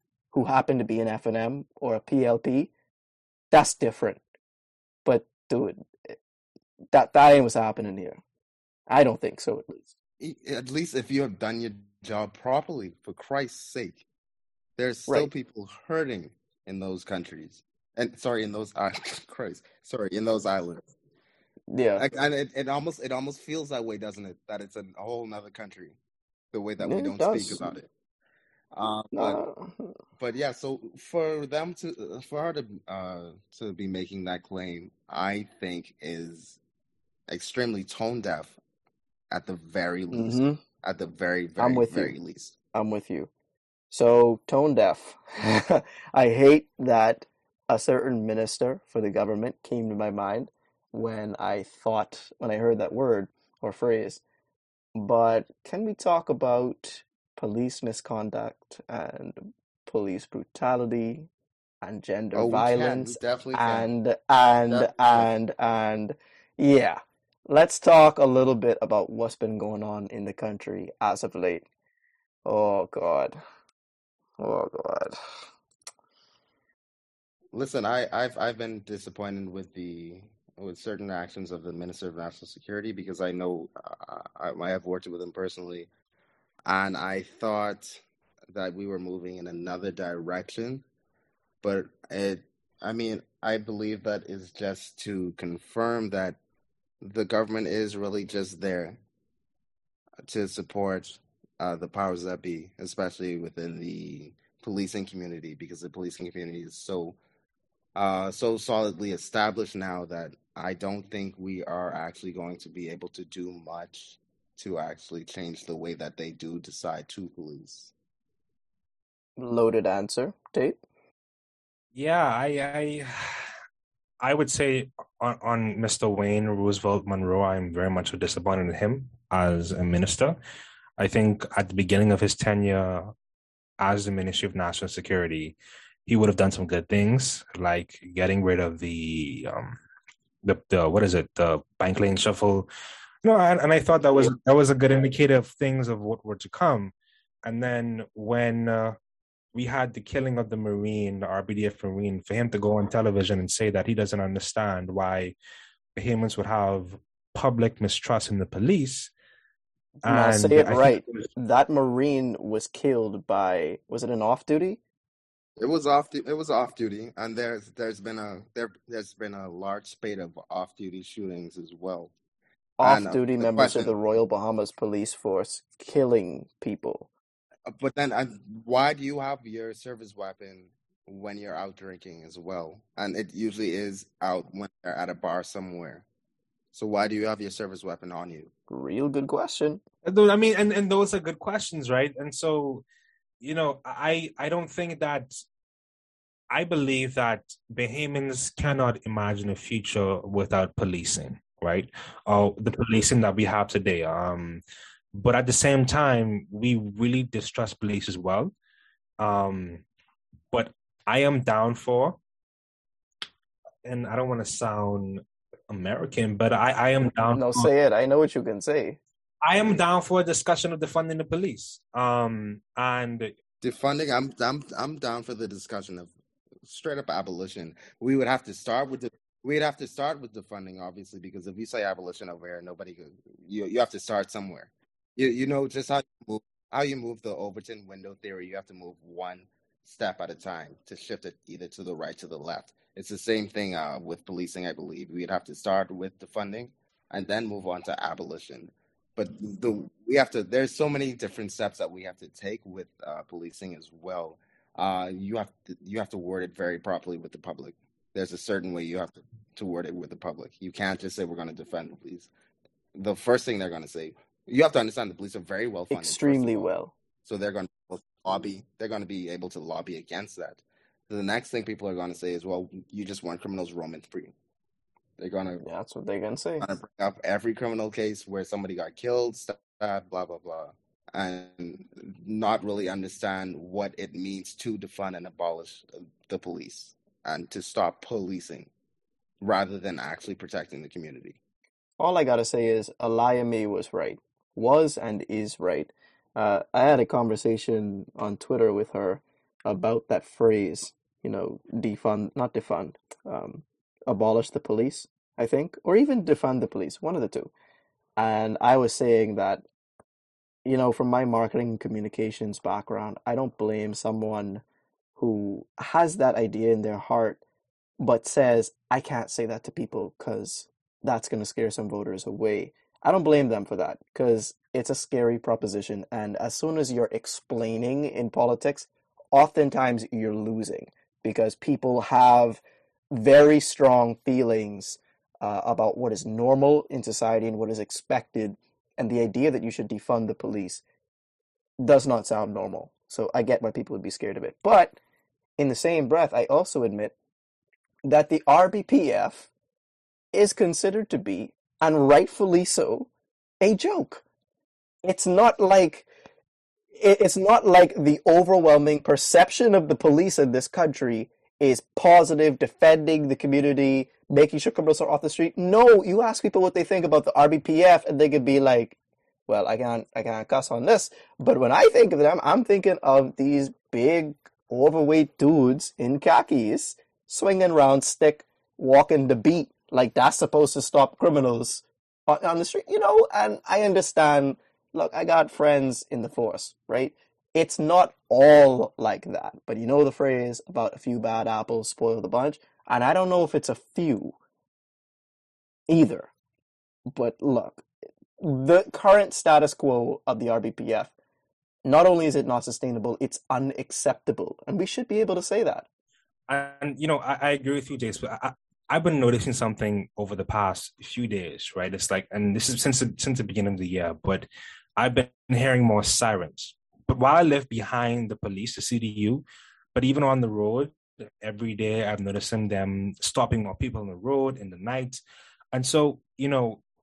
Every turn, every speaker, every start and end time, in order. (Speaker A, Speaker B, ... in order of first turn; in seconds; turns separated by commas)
Speaker A: 0.3-2.7, Speaker A: 3.5-4.2, Speaker A: 5.0-6.2, Speaker A: 6.9-8.2, Speaker A: 8.9-9.9, Speaker B: 10.2-14.0, Speaker B: 14.8-20.9, Speaker A: 21.7-22.0, Speaker B: 22.0-25.9, Speaker B: 26.5-27.9, Speaker A: 26.8-27.7, Speaker B: 28.7-29.4, Speaker A: 29.1-29.9, Speaker B: 30.2-36.6, Speaker B: 37.3-38.5, Speaker B: 39.3-42.5, Speaker A: 40.1-40.6, Speaker A: 41.6-42.1, Speaker A: 42.7-43.3, Speaker A: 43.9-54.2, Speaker A: 54.9-61.3, Speaker A: 61.8-71.7, Speaker B: 62.3-63.9, Speaker B: 64.7-65.3, Speaker A: 72.4-73.4, Speaker A: 74.4-75.2, Speaker B: 77.5-85.9, Speaker B: 86.7-90.8, Speaker B: 91.6-96.4, Speaker B: 97.0-99.0, Speaker B: 100.2-107.2, Speaker B: 108.0-117.9, Speaker A: 119.4-120.8, Speaker C: 121.9-123.5, Speaker C: 124.2-130.4, Speaker C: 131.0-133.1, Speaker C: 133.8-139.8, Speaker C: 140.4-142.7, Speaker C: 143.2-146.9, Speaker C: 147.4-149.0, Speaker C: 149.5-155.3, Speaker C: 155.9-159.1, Speaker C: 160.0-161.3, Speaker A: 160.0-164.8, Speaker B: 165.6-172.1, Speaker A: 172.8-177.1, Speaker B: 172.8-173.9, Speaker B: 177.7-186.1, Speaker B: 186.7-188.5, Speaker A: 188.7-189.8, Speaker C: 190.0-192.8, Speaker C: 193.4-195.4, Speaker C: 196.5-204.6, Speaker C: 205.1-208.5, Speaker C: 209.2-209.8, Speaker C: 210.5-212.2, Speaker C: 213.8-217.7, Speaker A: 217.3-219.0, Speaker C: 219.4-223.3, Speaker B: 223.6-226.1, Speaker B: 226.6-262.3, Speaker B: 262.9-274.3, Speaker A: 265.9-266.9, Speaker B: 275.2-275.6, Speaker A: 275.6-276.6, Speaker B: 276.6-288.7, Speaker B: 289.4-291.4, Speaker A: 292.0-307.5, Speaker A: 308.2-309.6, Speaker A: 310.6-314.6, Speaker A: 315.2-317.4, Speaker A: 318.0-340.8, Speaker A: 341.8-345.0, Speaker A: 345.6-347.1, Speaker A: 348.1-349.5, Speaker A: 350.3-353.1, Speaker A: 353.6-354.2, Speaker A: 355.0-356.1, Speaker A: 356.9-368.9, Speaker A: 369.5-394.4, Speaker A: 395.9-396.3, Speaker A: 397.1-397.9, Speaker A: 398.4-401.1, Speaker A: 401.8-405.8, Speaker C: 406.5-425.2, Speaker C: 425.7-426.8